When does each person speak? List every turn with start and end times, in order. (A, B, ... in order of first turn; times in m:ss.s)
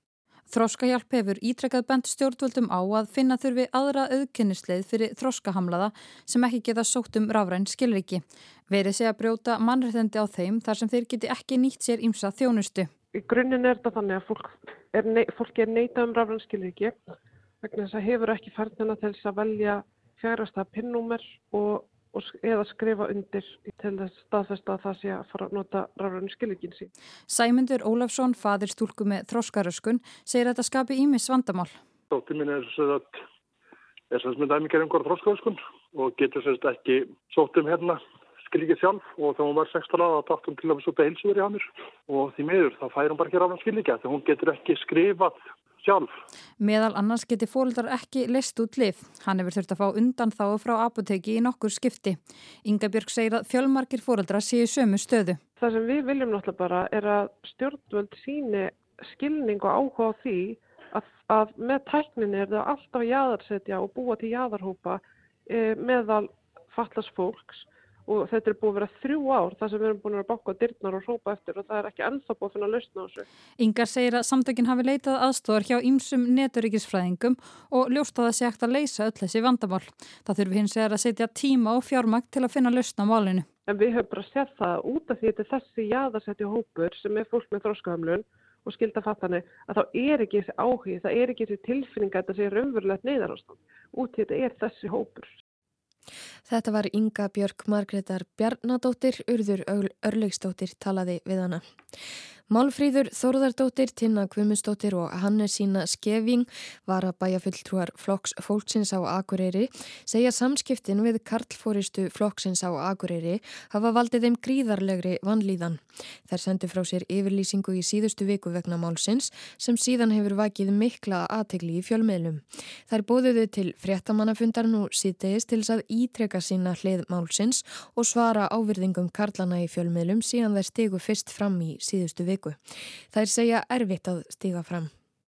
0:00.5-0:12.9 A
0:13.1-0:17.0 B
0:17.6-0:26.9 B
0:27.3-0:31.7 A
0:32.1-0:33.1 C
0:34.1-0:46.1 C
0:46.6-0:55.4 A
0:55.6-1:13.3 B
1:13.6-1:23.5 A
1:23.7-1:35.4 B
1:36.5-1:41.6 D
1:42.5-2:12.6 D
2:13.1-2:14.9 D